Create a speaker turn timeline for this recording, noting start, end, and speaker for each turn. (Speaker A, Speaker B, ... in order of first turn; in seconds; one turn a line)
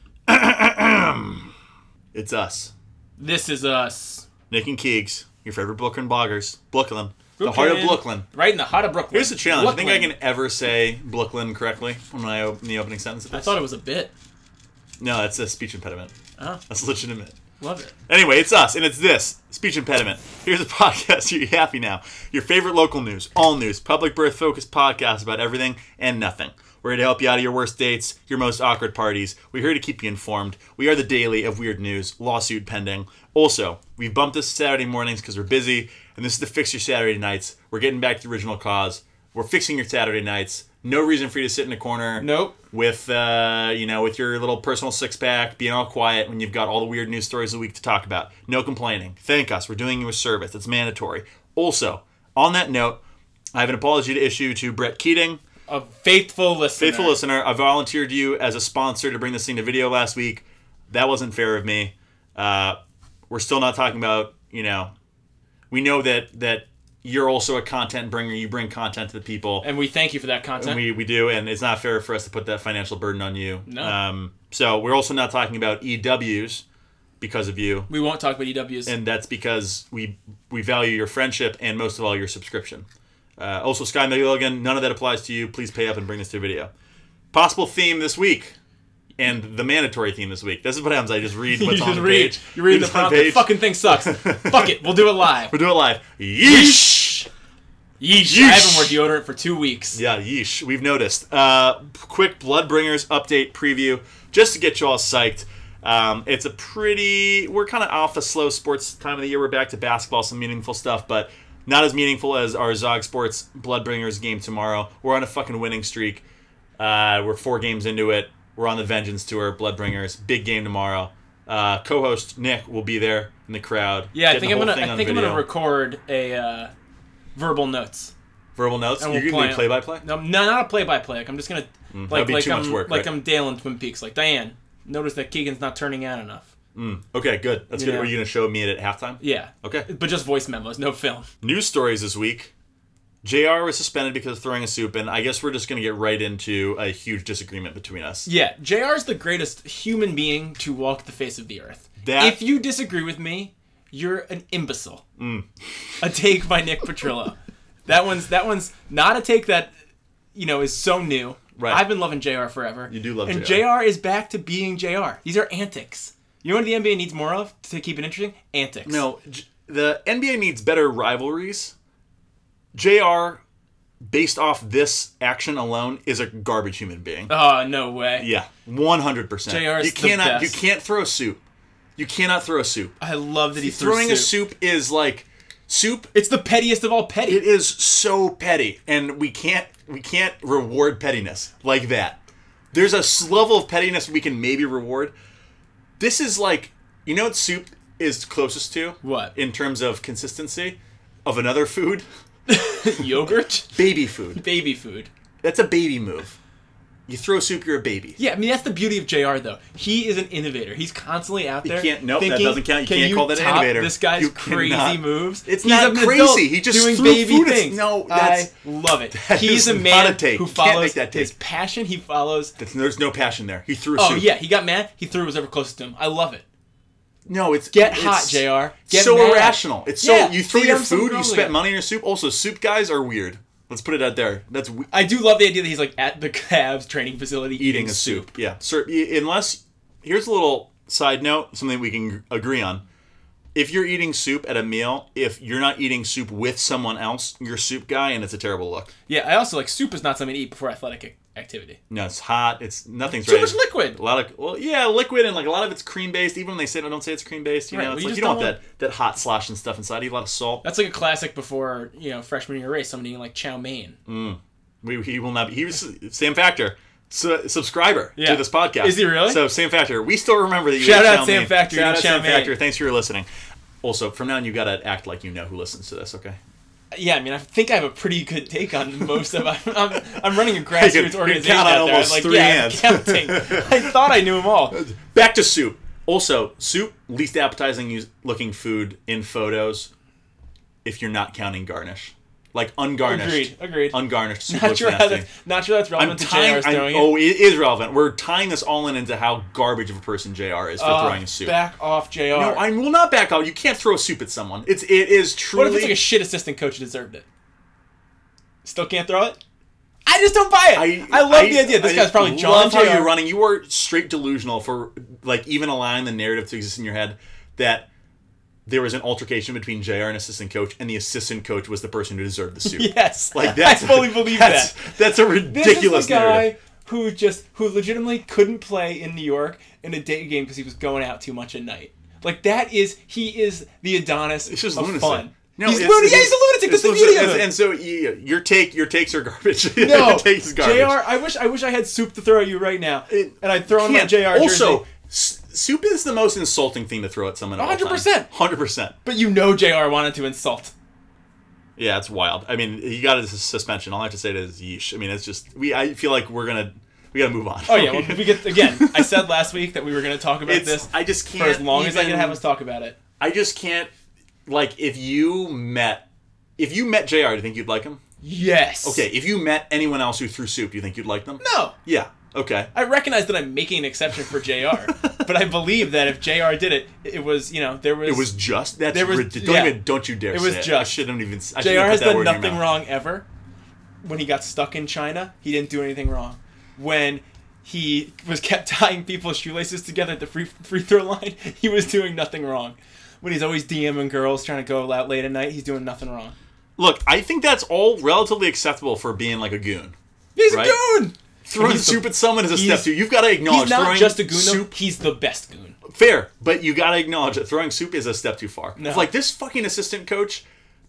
Speaker A: 0.3-1.5
Speaker A: 2.1-2.7
Speaker B: 3.2-4.3
Speaker A: 4.5-8.2
Speaker B: 7.4-10.1
Speaker A: 9.1-13.6
Speaker B: 13.3-14.1
Speaker A: 15.0-16.1
Speaker A: 16.7-17.3
Speaker B: 17.6-17.9
Speaker A: 18.1-53.0
Speaker B: 42.2-42.5
Speaker A: 53.5-55.4
Speaker B: 55.7-57.2
Speaker A: 56.8-62.8
Speaker A: 63.3-64.9
Speaker A: 65.7-69.7
Speaker B: 69.6-70.8
Speaker A: 70.6-76.6
Speaker B: 73.7-74.0
Speaker A: 77.2-77.9
Speaker B: 77.9-79.0
Speaker A: 78.8-82.8
Speaker A: 83.4-86.7
Speaker A: 87.3-88.5
Speaker A: 89.2-97.2
Speaker B: 91.5-95.5
Speaker B: 96.4-97.3
Speaker B: 98.0-100.0
Speaker A: 98.2-99.0
Speaker A: 99.9-116.2
Speaker A: 116.8-125.5
Speaker B: 124.1-126.7
Speaker B: 127.3-128.1
Speaker A: 128.6-130.0
Speaker B: 129.0-136.5
Speaker A: 131.9-133.1
Speaker A: 136.7-139.9
Speaker B: 137.7-138.1
Speaker B: 139.2-141.3
Speaker A: 141.4-142.5
Speaker A: 143.2-148.3
Speaker B: 148.2-155.0
Speaker A: 152.0-152.4
Speaker A: 155.2-155.5
Speaker B: 156.0-159.7
Speaker B: 160.3-169.0
Speaker A: 161.6-161.8
Speaker A: 162.9-163.7
Speaker A: 168.8-171.7
Speaker A: 172.7-173.4
Speaker A: 174.0-177.3
Speaker B: 177.3-178.3
Speaker A: 178.2-181.4
Speaker B: 179.5-180.6
Speaker A: 182.0-182.9
Speaker B: 183.0-184.3
Speaker A: 183.5-186.1
Speaker B: 186.1-187.4
Speaker A: 187.2-192.2
Speaker A: 192.7-195.1
Speaker A: 196.0-202.0
Speaker B: 199.0-199.3
Speaker B: 202.5-203.8
Speaker A: 203.7-204.4
Speaker B: 204.3-205.1
Speaker A: 205.4-206.4
Speaker A: 207.1-208.2
Speaker B: 208.2-222.6
Speaker A: 211.6-218.5
Speaker A: 219.1-221.3
Speaker A: 222.6-224.3
Speaker B: 223.9-226.4
Speaker A: 227.2-234.9
Speaker B: 227.7-231.6
Speaker B: 234.9-238.3
Speaker A: 237.6-242.8
Speaker A: 243.5-248.9
Speaker B: 249.1-251.8
Speaker A: 251.9-260.6
Speaker B: 253.1-254.0
Speaker B: 257.7-258.6
Speaker B: 260.6-264.0
Speaker A: 264.1-273.3
Speaker B: 268.1-269.4
Speaker B: 270.8-272.5
Speaker A: 273.8-276.4
Speaker B: 276.9-284.8
Speaker A: 280.6-283.9
Speaker A: 284.7-289.9
Speaker A: 290.8-295.2
Speaker B: 293.1-297.2
Speaker A: 295.9-301.6
Speaker B: 300.8-302.6
Speaker A: 302.3-306.0
Speaker B: 305.5-307.2
Speaker B: 308.6-309.4
Speaker B: 310.1-313.1
Speaker A: 310.7-317.9
Speaker A: 318.6-326.5
Speaker B: 322.6-337.5
Speaker A: 334.5-341.0
Speaker B: 339.8-344.8
Speaker A: 343.1-348.9
Speaker B: 347.6-348.3
Speaker B: 349.0-350.7
Speaker A: 351.8-359.3
Speaker B: 357.7-362.9
Speaker A: 360.4-362.4
Speaker A: 363.2-363.9
Speaker A: 364.4-366.0
Speaker A: 366.6-368.0
Speaker B: 368.2-369.1
Speaker A: 368.8-372.7
Speaker B: 371.4-371.7
Speaker B: 372.7-378.3
Speaker A: 374.9-375.2
Speaker A: 378.0-382.6
Speaker B: 378.9-381.0
Speaker B: 381.6-383.2
Speaker B: 384.0-396.4
Speaker A: 396.8-399.9
Speaker B: 400.4-405.8
Speaker A: 400.5-400.8
Speaker A: 401.4-404.8
Speaker A: 405.8-410.4
Speaker B: 408.8-409.1